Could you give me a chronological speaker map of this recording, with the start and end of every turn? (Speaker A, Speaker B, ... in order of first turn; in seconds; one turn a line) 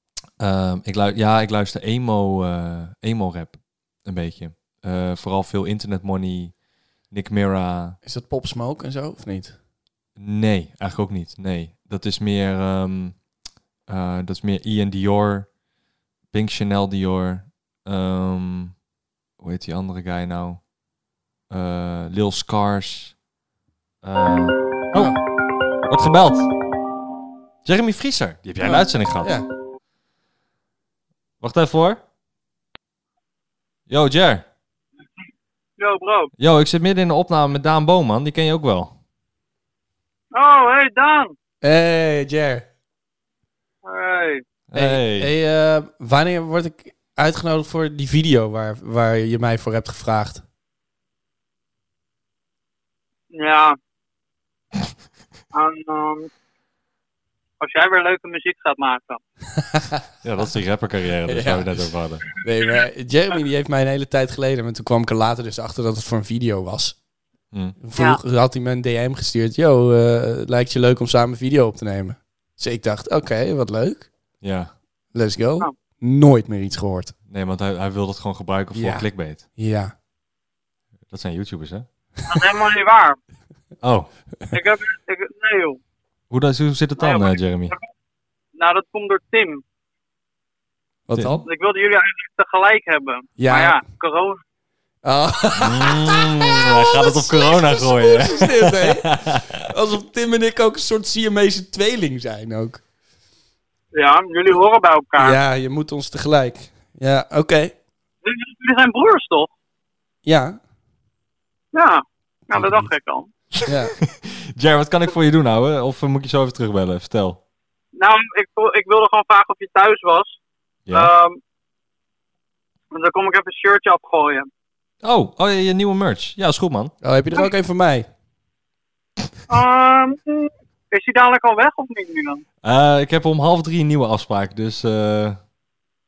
Speaker A: 0.4-6.5
Speaker A: 7.1-8.0
Speaker B: 8.0-9.6
Speaker A: 10.2-13.2
Speaker A: 13.9-15.5
Speaker A: 16.3-18.7
Speaker A: 19.4-20.6
Speaker A: 21.5-23.1
Speaker A: 24.0-25.2
Speaker B: 24.9-25.2
Speaker A: 25.8-26.5
Speaker A: 27.6-29.4
Speaker B: 28.6-29.5
Speaker A: 31.4-32.0
Speaker A: 33.9-34.4
Speaker C: 35.8-36.3
Speaker A: 36.4-38.9
Speaker C: 40.3-41.3
Speaker B: 41.6-42.7
Speaker C: 43.8-44.4
Speaker A: 44.7-45.3
Speaker B: 44.7-50.4
Speaker C: 53.3-53.8
Speaker C: 55.5-56.3
Speaker C: 57.6-59.2
Speaker B: 59.6-60.0
Speaker A: 60.2-62.2
Speaker B: 61.2-61.8
Speaker B: 62.4-67.0
Speaker A: 67.5-67.8
Speaker B: 67.8-74.1
Speaker A: 74.4-74.7
Speaker B: 75.1-77.1
Speaker A: 77.3-79.4
Speaker B: 78.7-79.9
Speaker A: 81.1-81.8
Speaker C: 82.3-83.2
Speaker A: 83.8-84.1
Speaker C: 84.5-85.8
Speaker A: 86.3-87.7
Speaker C: 87.0-87.8
Speaker C: 88.5-89.6
Speaker B: 91.1-91.5
Speaker A: 91.1-91.4
Speaker C: 91.4-94.4
Speaker B: 93.4-93.8
Speaker B: 95.0-102.8
Speaker A: 95.5-99.5
Speaker C: 103.9-105.4
Speaker B: 105.2-107.7
Speaker C: 108.2-109.5
Speaker B: 110.2-110.6
Speaker C: 111.7-113.3
Speaker B: 112.5-112.9
Speaker A: 113.5-117.4
Speaker B: 113.7-113.9
Speaker C: 117.9-120.4
Speaker A: 120.8-121.1
Speaker C: 120.9-121.4
Speaker C: 122.9-124.5
Speaker A: 125.0-126.9
Speaker B: 127.0-128.1
Speaker C: 129.5-132.4
Speaker A: 132.6-135.4